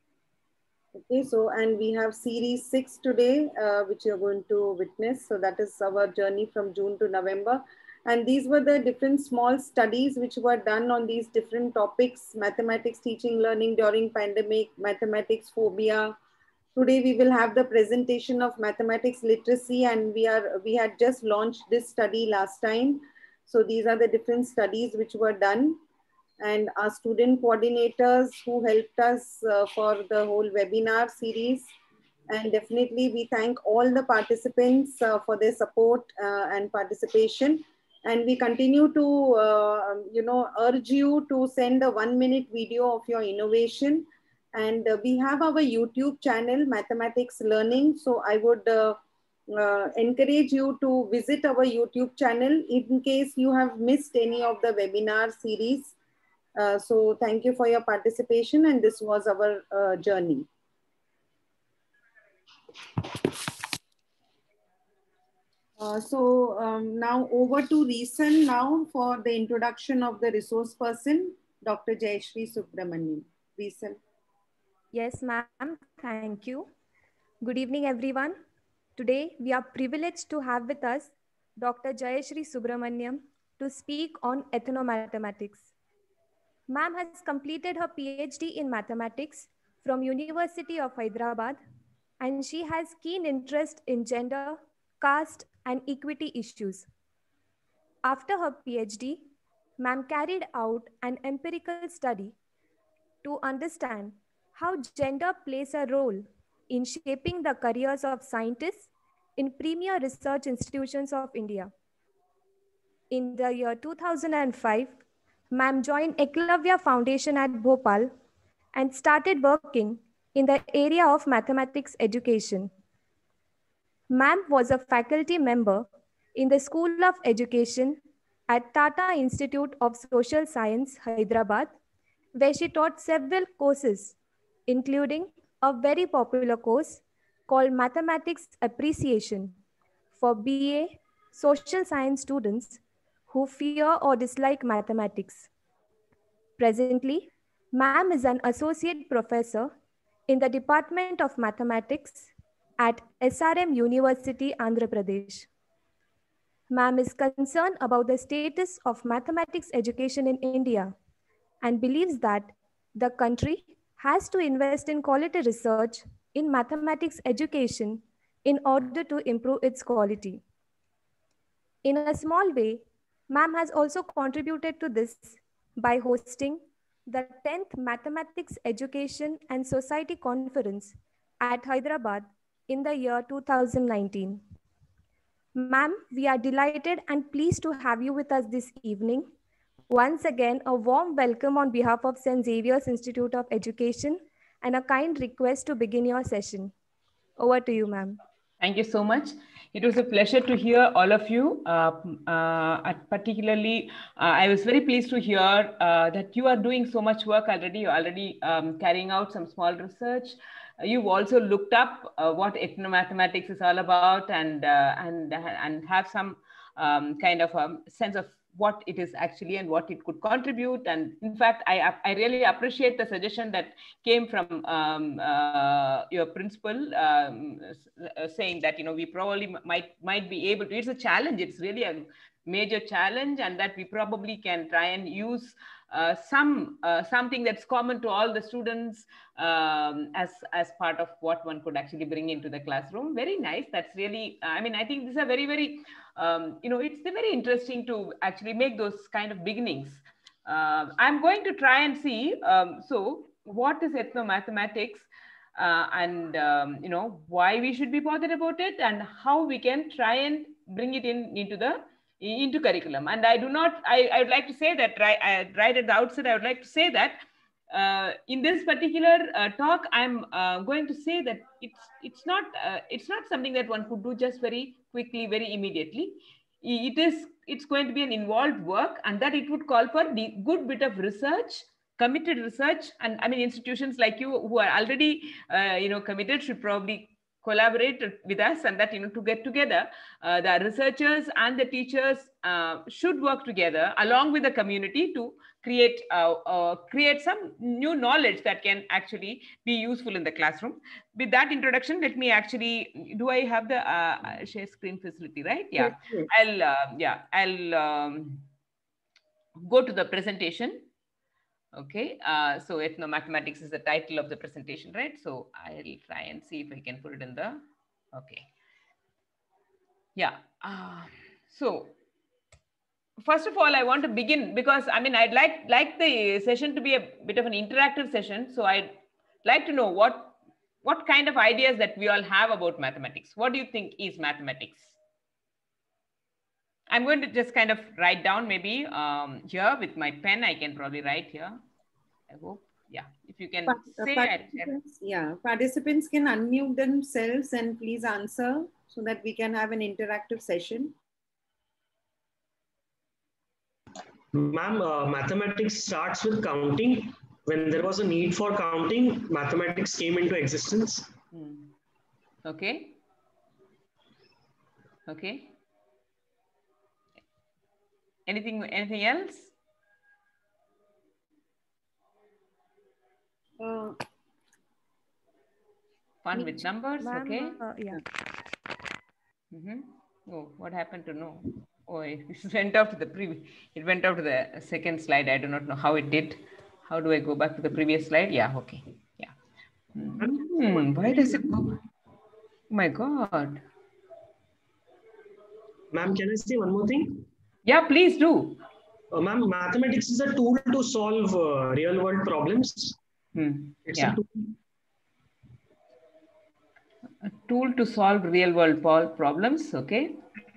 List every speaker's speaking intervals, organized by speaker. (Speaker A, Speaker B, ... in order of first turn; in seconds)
Speaker A: 1.1-16.1, 16.8-25.8, 26.4-31.7, 32.3-49.0, 49.5-55.9, 56.6-60.5, 65.8-74.0, 343.7-350.9, 373.6-374.0
Speaker B: 74.9-76.7, 77.4-78.4, 79.0-85.7, 86.7-91.6, 92.2-96.9, 98.0-99.3, 99.8-102.3, 103.2-111.7, 113.1-114.9, 115.5-118.1, 118.7-122.7, 124.1-131.8, 132.3-134.2, 134.7-139.6, 140.2-145.5, 146.6-149.7, 150.3-155.5, 156.7-160.9, 161.6-170.4, 171.8-184.4, 185.6-189.3, 189.9-196.7, 197.4-198.2, 376.4-378.0
Speaker C: 198.6-308.4, 309.7-310.9, 311.7-317.6, 318.1-318.4, 320.1-321.9, 323.2-334.9, 336.9-341.6, 342.3-344.7, 361.3-361.7, 362.4-362.9, 365.1-365.5, 368.3-369.5, 376.2-377.6, 379.5-389.3, 389.9-391.7, 392.7-393.6, 397.6-398.6, 403.4-404.2, 407.2-410.2
Speaker D: 354.3-361.1, 390.2-391.8, 395.9-397.2, 399.1-403.0, 403.9-404.3